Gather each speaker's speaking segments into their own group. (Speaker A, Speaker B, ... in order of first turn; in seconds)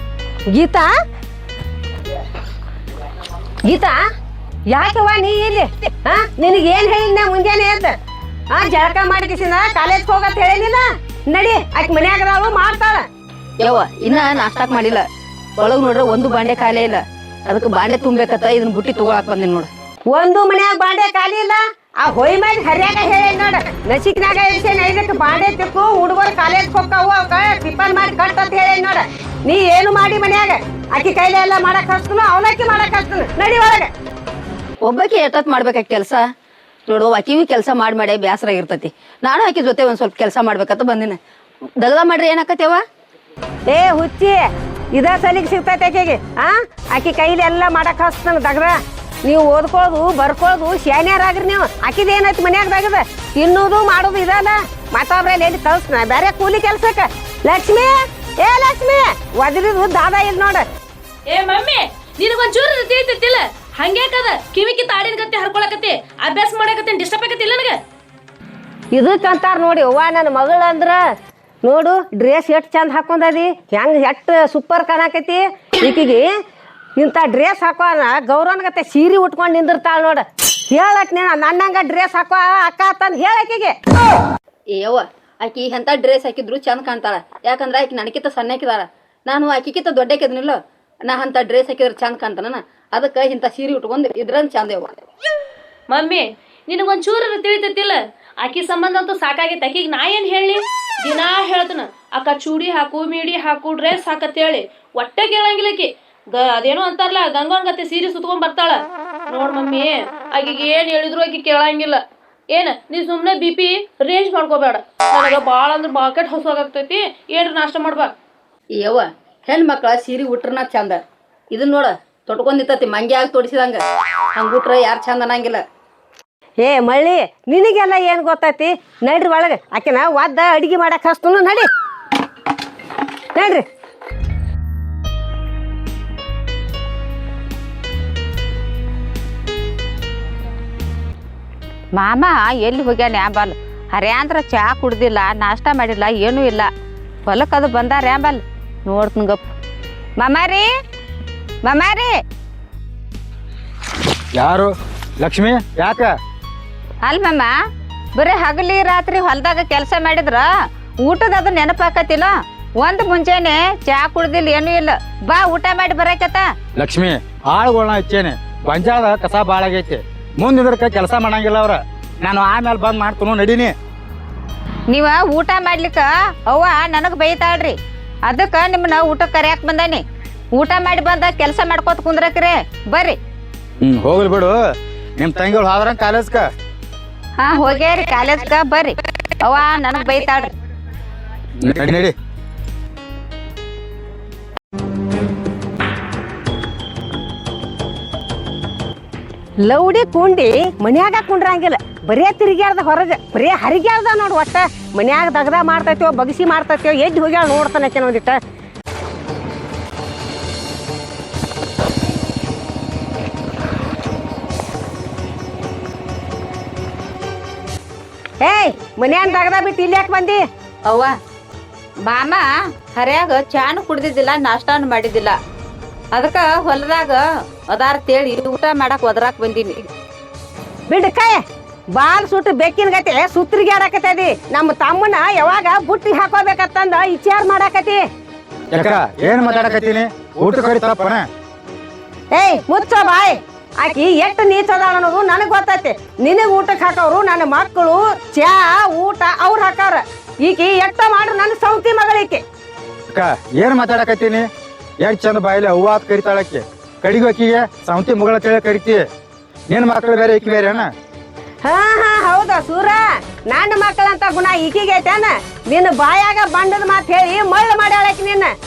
Speaker A: 0.5-0.9, 3.7-4.0, 4.7-7.9, 8.5-13.0, 20.1-33.9, 43.7-44.4, 44.9-60.6, 68.9-71.0, 71.6-76.3, 77.0-83.8, 126.6-131.7, 133.3-133.7, 199.6-208.4, 218.4-220.4, 230.9-231.4, 231.9-238.0, 242.3-252.4, 261.6-268.5
Speaker B: 13.6-15.1, 15.6-19.7, 34.8-36.2, 36.9-41.2, 41.8-42.8, 84.7-95.0, 118.8-123.8, 124.3-125.6
Speaker C: 61.3-67.8, 95.9-118.1
Speaker D: 141.9-146.7, 147.3-149.4, 150.2-150.7, 151.6-152.1, 157.0-157.5, 158.2-160.5, 161.0-166.4, 174.9-180.0, 180.5-183.2, 187.4-190.5, 220.8-221.1, 222.0-225.3, 226.1-229.8
Speaker E: 154.4-156.1, 166.8-173.7, 183.8-184.6, 185.2-186.5, 191.6-192.1, 238.7-241.3, 253.1-254.5, 255.0-259.0, 259.7-260.9